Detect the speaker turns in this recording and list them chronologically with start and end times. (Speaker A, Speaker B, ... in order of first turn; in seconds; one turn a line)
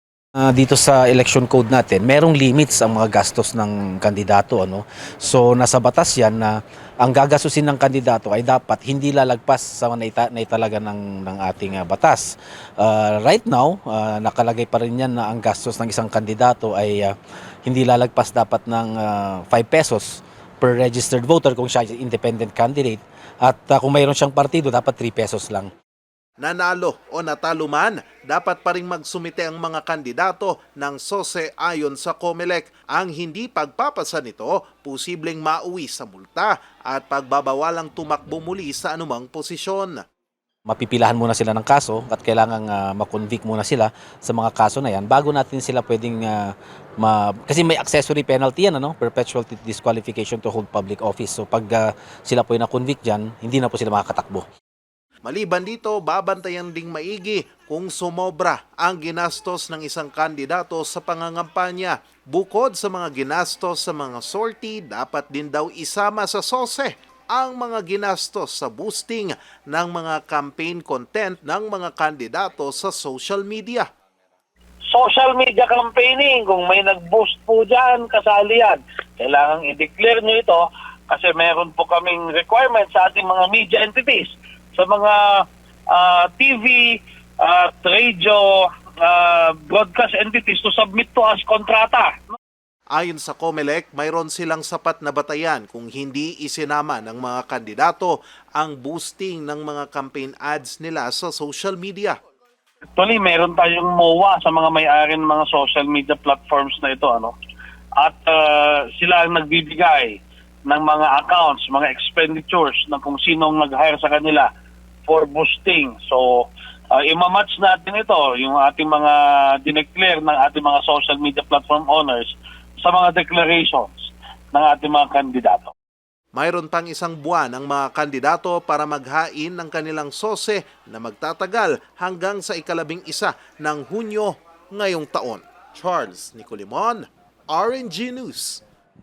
Speaker A: 0.5-25.7
Speaker B: 26.4-40.0
Speaker A: 40.7-54.4
Speaker B: 55.2-73.9
Speaker C: 74.9-92.3
Speaker B: 92.9-102.2
Speaker C: 103.0-107.3
Speaker C: 108.0-114.5
Speaker C: 115.1-123.9
Speaker C: 124.5-125.7
Speaker B: 126.3-138.6